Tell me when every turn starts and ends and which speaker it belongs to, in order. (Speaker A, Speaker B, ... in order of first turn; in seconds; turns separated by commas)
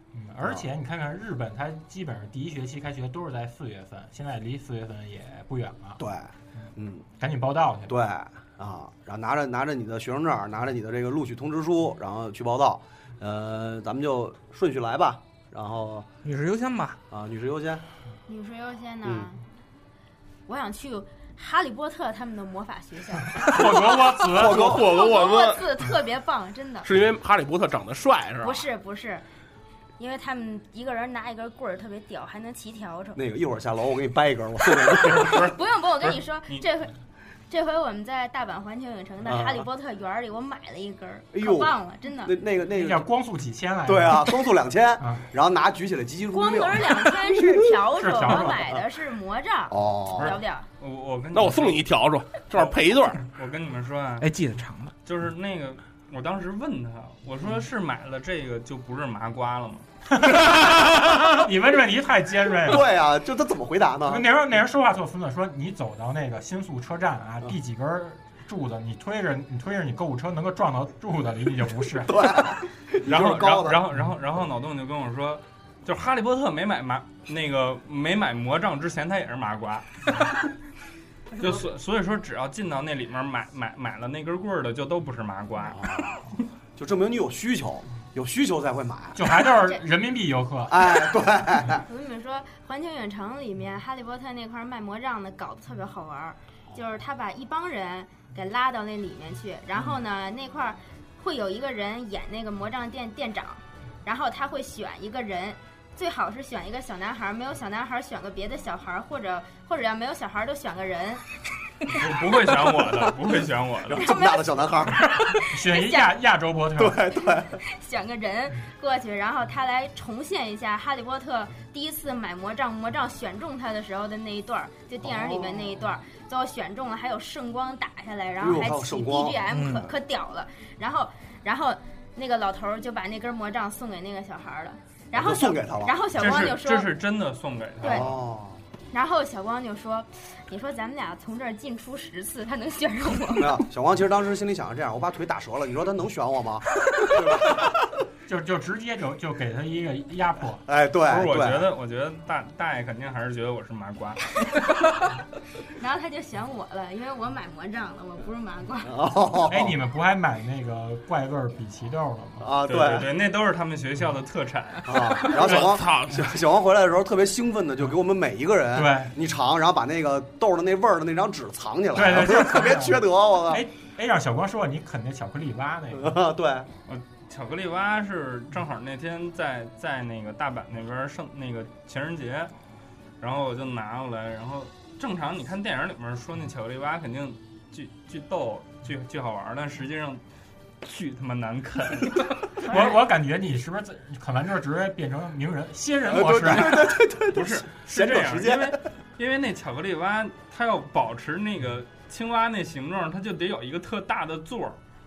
Speaker A: 0.1-6.0, Speaker B: 6.0-7.1, Speaker A: 7.2-7.9, Speaker B: 7.9-16.1, Speaker C: 16.2-17.0, Speaker B: 17.1-17.8, Speaker D: 18.3-19.4, Speaker D: 20.5-24.0, Speaker A: 23.4-24.8, Speaker B: 24.2-24.9, Speaker E: 24.3-25.6, Speaker D: 24.9-26.9, Speaker E: 26.9-28.7, Speaker D: 28.4-29.2, Speaker D: 30.0-33.2, Speaker B: 33.2-35.6, Speaker F: 35.1-36.6, Speaker D: 35.4-36.9, Speaker D: 37.5-42.4, Speaker B: 39.2-39.7, Speaker B: 41.3-43.1, Speaker A: 42.7-44.3, Speaker B: 43.9-47.6, Speaker D: 46.3-50.7, Speaker A: 48.0-48.6, Speaker B: 48.2-48.8, Speaker B: 49.7-50.4, Speaker F: 50.8-51.8, Speaker E: 51.3-53.2, Speaker F: 52.5-54.3, Speaker C: 54.2-54.9, Speaker F: 55.0-59.9, Speaker A: 60.1-62.9, Speaker B: 62.6-64.3, Speaker A: 64.1-72.2, Speaker B: 72.0-73.8, Speaker F: 73.0-80.3, Speaker F: 81.4-86.2, Speaker B: 85.7-89.3, Speaker A: 89.2-90.9, Speaker B: 90.7-91.8, Speaker D: 91.9-111.2, Speaker F: 111.9-114.1, Speaker B: 113.9-115.1, Speaker D: 114.0-114.6, Speaker A: 115.5-117.0, Speaker D: 115.6-116.2, Speaker B: 116.8-117.6, Speaker D: 117.6-136.9, Speaker B: 125.0-125.8, Speaker B: 128.4-129.4, Speaker C: 129.5-129.9, Speaker B: 135.1-136.0, Speaker F: 136.2-138.2, Speaker D: 137.8-138.2, Speaker B: 137.8-138.6, Speaker D: 138.9-143.6, Speaker B: 143.4-147.9, Speaker A: 148.3-150.6, Speaker B: 150.7-151.7, Speaker F: 151.1-154.3, Speaker D: 154.6-154.9, Speaker D: 155.8-158.9, Speaker B: 158.8-159.8, Speaker A: 159.5-162.5, Speaker B: 162.4-163.1, Speaker F: 162.7-165.3, Speaker B: 164.8-173.6, Speaker E: 165.4-166.3, Speaker A: 168.7-169.1, Speaker A: 171.9-176.2, Speaker B: 175.9-176.7, Speaker F: 176.9-182.5, Speaker F: 183.2-190.2, Speaker F: 190.8-192.4, Speaker A: 192.7-197.0, Speaker D: 192.7-192.9, Speaker B: 196.1-198.8, Speaker F: 197.3-204.8